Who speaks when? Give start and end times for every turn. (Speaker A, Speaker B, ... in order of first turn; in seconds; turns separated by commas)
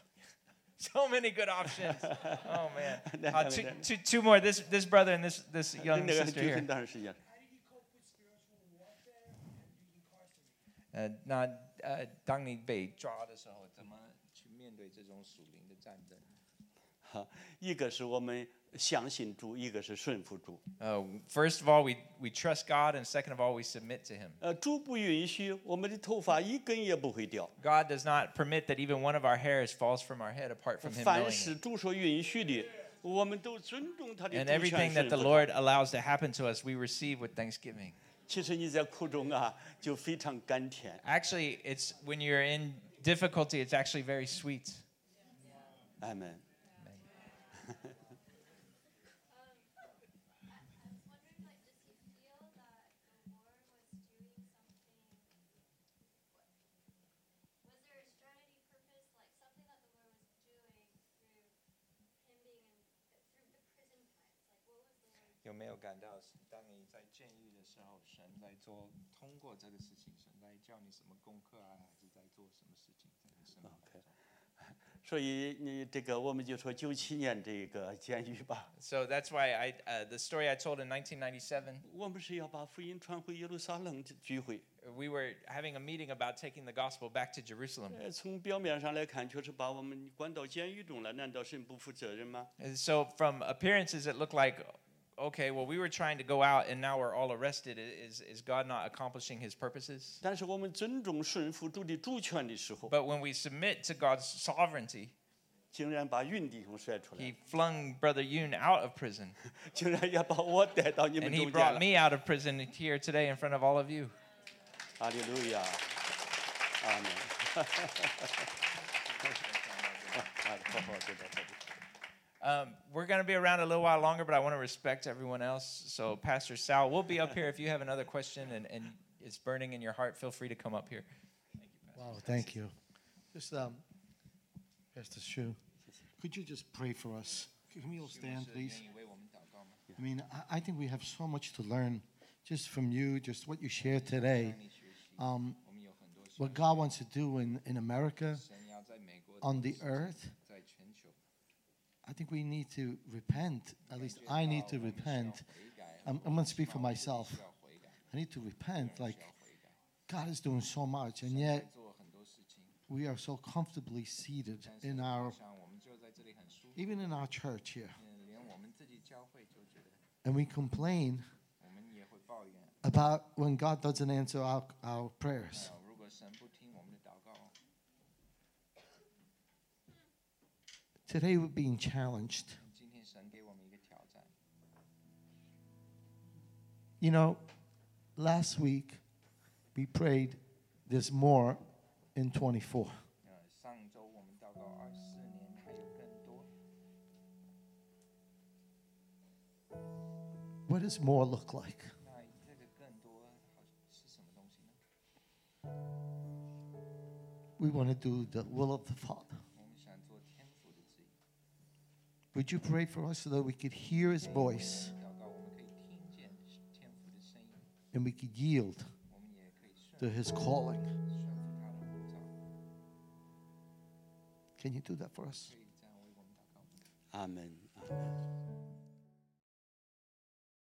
Speaker A: 0.8-6.7, Speaker B: 1.8-3.9, Speaker B: 5.8-7.2, Speaker C: 7.1-10.6, Speaker A: 10.9-16.3, Speaker B: 17.0-20.6, Speaker A: 20.8-24.4, Speaker B: 24.4-27.5, Speaker A: 27.6-31.6, Speaker B: 30.8-35.5, Speaker A: 34.3-38.0, Speaker B: 38.3-41.0, Speaker A: 41.0-44.8, Speaker C: 45.4-45.9, Speaker B: 46.0-46.4, Speaker A: 46.8-47.0, Speaker D: 49.3-49.9, Speaker D: 50.5-55.4, Speaker D: 56.0-56.5, Speaker D: 57.6-61.5, Speaker D: 62.1-65.5, Speaker A: 65.4-74.2, Speaker B: 73.7-74.0, Speaker B: 75.0-78.7, Speaker A: 78.8-81.8, Speaker B: 81.8-84.7, Speaker A: 84.8-88.0, Speaker B: 87.9-92.5, Speaker A: 92.6-100.2, Speaker B: 100.2-102.9, Speaker A: 102.9-105.1, Speaker B: 105.7-107.3, Speaker A: 107.2-109.4, Speaker B: 109.6-111.9, Speaker A: 111.2-114.2, Speaker B: 115.0-115.9, Speaker B: 116.8-118.5, Speaker A: 118.9-120.3, Speaker B: 120.1-121.6, Speaker A: 122.4-131.1, Speaker A: 131.6-132.6, Speaker E: 131.9-132.7, Speaker E: 133.3-133.8, Speaker E: 134.9-135.6, Speaker E: 136.2-138.8, Speaker A: 138.0-139.8, Speaker E: 139.9-144.6, Speaker A: 143.8-147.0, Speaker E: 145.2-145.6, Speaker E: 146.4-148.4, Speaker A: 148.3-151.2, Speaker E: 149.4-150.3, Speaker E: 152.0-155.4, Speaker A: 153.9-158.1, Speaker E: 156.1-157.4, Speaker E: 158.1-159.3, Speaker A: 158.8-159.8, Speaker E: 160.1-161.7, Speaker A: 161.2-162.8, Speaker E: 162.9-165.4, Speaker A: 164.6-167.3, Speaker E: 166.8-168.0, Speaker A: 168.0-170.0, Speaker E: 170.2-171.3, Speaker A: 171.6-172.8, Speaker E: 172.8-175.7, Speaker A: 175.5-177.5, Speaker E: 181.1-182.6, Speaker A: 182.6-184.3, Speaker E: 187.0-187.4, Speaker E: 188.2-189.0, Speaker E: 189.7-193.0, Speaker A: 193.2-196.5, Speaker E: 200.7-201.9, Speaker A: 202.0-204.8, Speaker E: 207.6-209.4, Speaker A: 209.5-211.2, Speaker E: 212.3-214.9, Speaker A: 214.2-217.7, Speaker E: 217.9-218.9, Speaker A: 219.1-220.3, Speaker E: 220.0-220.9, Speaker A: 221.1-222.3, Speaker E: 224.6-225.5, Speaker A: 225.3-226.7, Speaker B: 227.1-228.1